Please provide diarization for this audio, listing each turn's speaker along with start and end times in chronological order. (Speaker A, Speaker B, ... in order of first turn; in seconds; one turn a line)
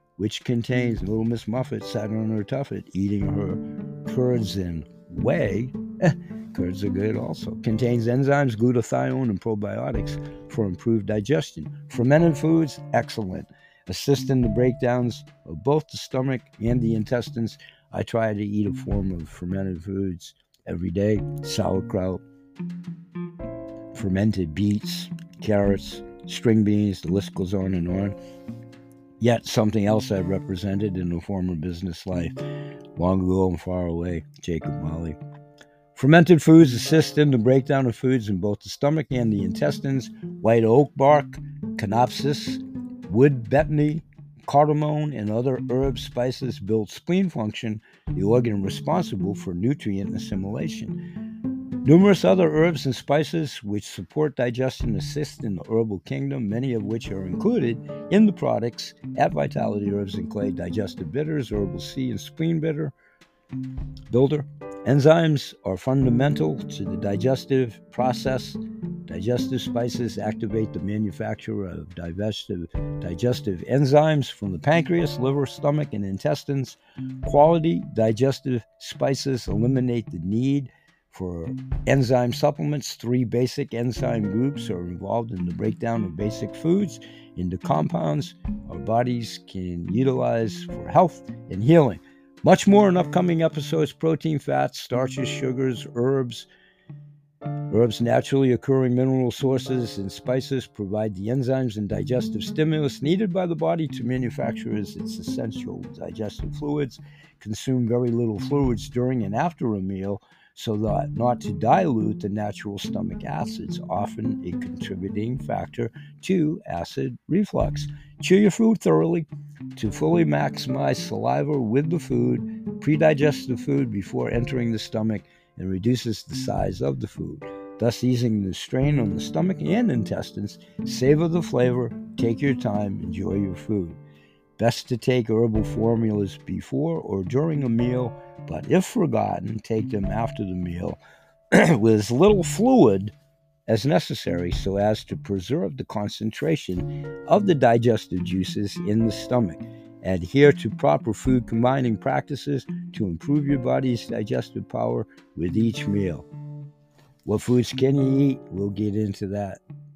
Speaker A: 0.2-22.2
Speaker A: 23.9-28.1
Speaker A: 29.2-32.4
Speaker A: 33.0-35.2
Speaker A: 35.9-51.0
Speaker A: 51.8-62.9
Speaker A: 64.1-96.5
Speaker A: 97.7-134.0
Speaker A: 134.6-141.0
Speaker A: 141.5-143.1
Speaker A: 143.7-156.3
Speaker A: 157.2-159.6